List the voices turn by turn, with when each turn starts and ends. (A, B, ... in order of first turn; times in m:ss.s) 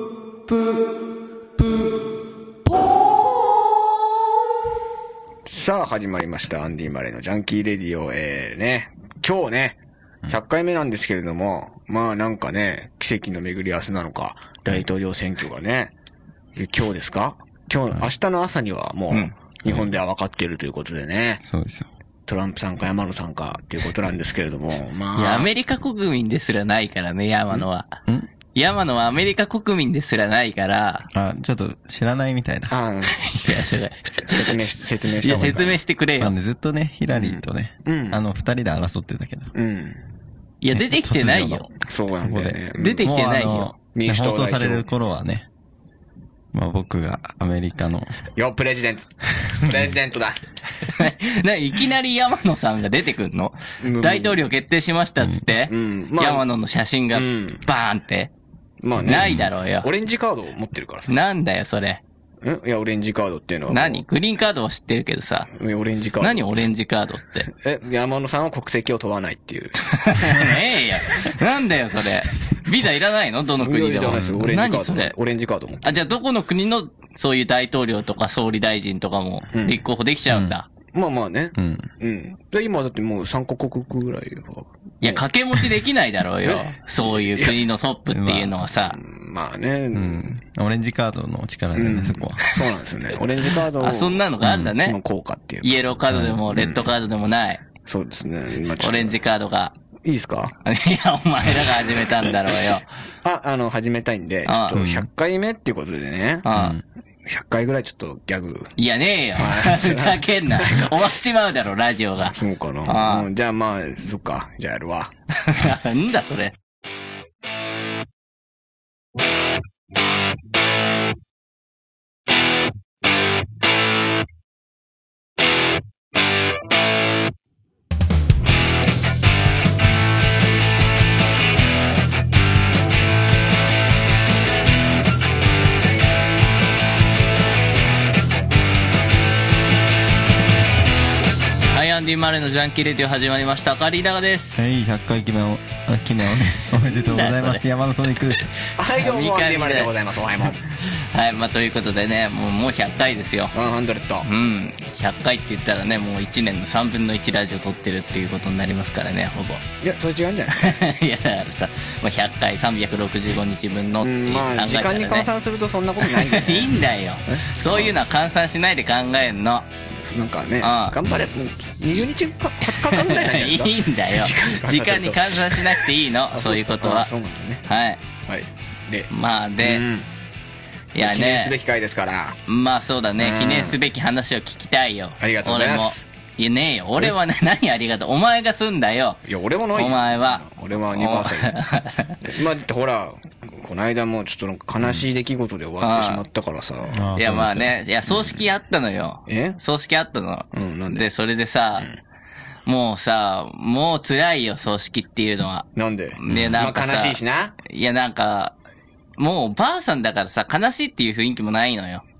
0:00.5-0:00.7 A
0:01.6-0:01.8 A
0:05.4-0:09.8 A
0:10.3-0:15.9 A
0:16.6-0:21.4 A
0:19.6-0:19.9 B
0:21.4-0:21.9 B
0:22.3-0:25.5 A
0:25.1-0:27.9 C
0:28.5-0:31.1 C
0:31.1-0:32.8 B
0:32.7-0:33.1 A
0:33.1-0:34.5 C
0:34.2-0:35.8 A
0:35.2-0:36.3 C
0:36.2-0:39.5 B
0:37.1-0:38.2 A
0:39.5-0:40.0 A
0:40.6-0:41.7 C
0:40.7-0:45.4 B
0:41.8-0:43.1 A
0:42.7-0:43.7 C
0:43.8-0:44.9 A
0:46.5-0:48.2 B
0:48.3-0:50.4 A
0:49.4-0:49.9 B
0:50.8-0:58.3 C
0:53.8-0:54.4 A
0:55.6-0:56.4 A
0:57.1-0:57.6 A
0:58.8-1:01.1 A
0:59.0-0:59.5 B
0:59.0-0:59.9 C
1:01.1-1:02.0 C
1:02.4-1:04.0 A
1:03.7-1:05.5 C
1:05.5-1:06.5 A
1:06.2-1:07.5 C
1:07.5-1:10.6 A
1:09.8-1:15.1 C
1:13.6-1:16.0 A
1:14.1-1:14.4 B
1:15.8-1:20.6 C
1:19.5-1:19.8 A
1:20.3-1:20.6 B
1:20.9-1:25.2 A
1:21.6-1:21.9 B
1:25.0-1:29.0 C
1:26.4-1:27.6 A
1:28.1-1:28.6 B
1:28.8-1:30.4 A
1:29.9-1:32.4 B
1:31.7-1:34.3 A
1:33.8-1:35.0 C
1:34.4-1:34.7 B
1:34.8-1:35.8 A
1:35.6-1:37.6 C
1:36.1-1:36.8 B
1:37.8-1:39.2 A
1:38.8-1:39.7 C
1:40.0-1:40.5 A
1:40.6-1:42.8 C
1:43.2-1:46.4 A
1:44.4-1:44.8 C
1:44.7-1:45.1 B
1:46.4-1:46.8 C
1:46.5-1:46.8 B
1:47.2-1:48.7 A
1:48.8-1:53.3 C
1:49.4-1:51.0 A
1:52.2-1:55.1 A
1:55.4-1:56.6 C
2:21.7-2:24.6 C
2:24.6-2:28.5 B
2:27.0-2:27.6 C
2:28.5-2:29.9 C
2:28.8-2:30.6 A
2:30.8-2:33.5 C
2:33.5-2:34.3 A
2:34.2-2:39.6 C
2:39.8-2:40.8 A
2:40.5-2:45.3 C
2:44.0-2:47.9 A
2:46.0-2:49.7 C
2:50.0-2:57.6 A
2:50.6-2:51.0 C
2:52.6-2:57.1 C
2:57.6-2:58.0 C
2:58.3-3:00.1 A
2:59.1-2:59.8 C
3:00.9-3:01.6 C
3:01.0-3:02.4 A
3:02.5-3:09.2 C
3:03.2-3:03.8 A
3:05.2-3:06.0 A
3:09.2-3:11.6 A
3:09.7-3:12.2 C
3:12.2-3:17.1 A
3:15.8-3:16.2 C
3:16.9-3:17.8 B
3:17.2-3:21.9 C
3:19.3-3:19.6 A
3:20.5-3:21.0 A
3:22.6-3:28.6 C
3:25.7-3:27.5 A
3:26.3-3:26.6 B
3:29.2-3:32.0 C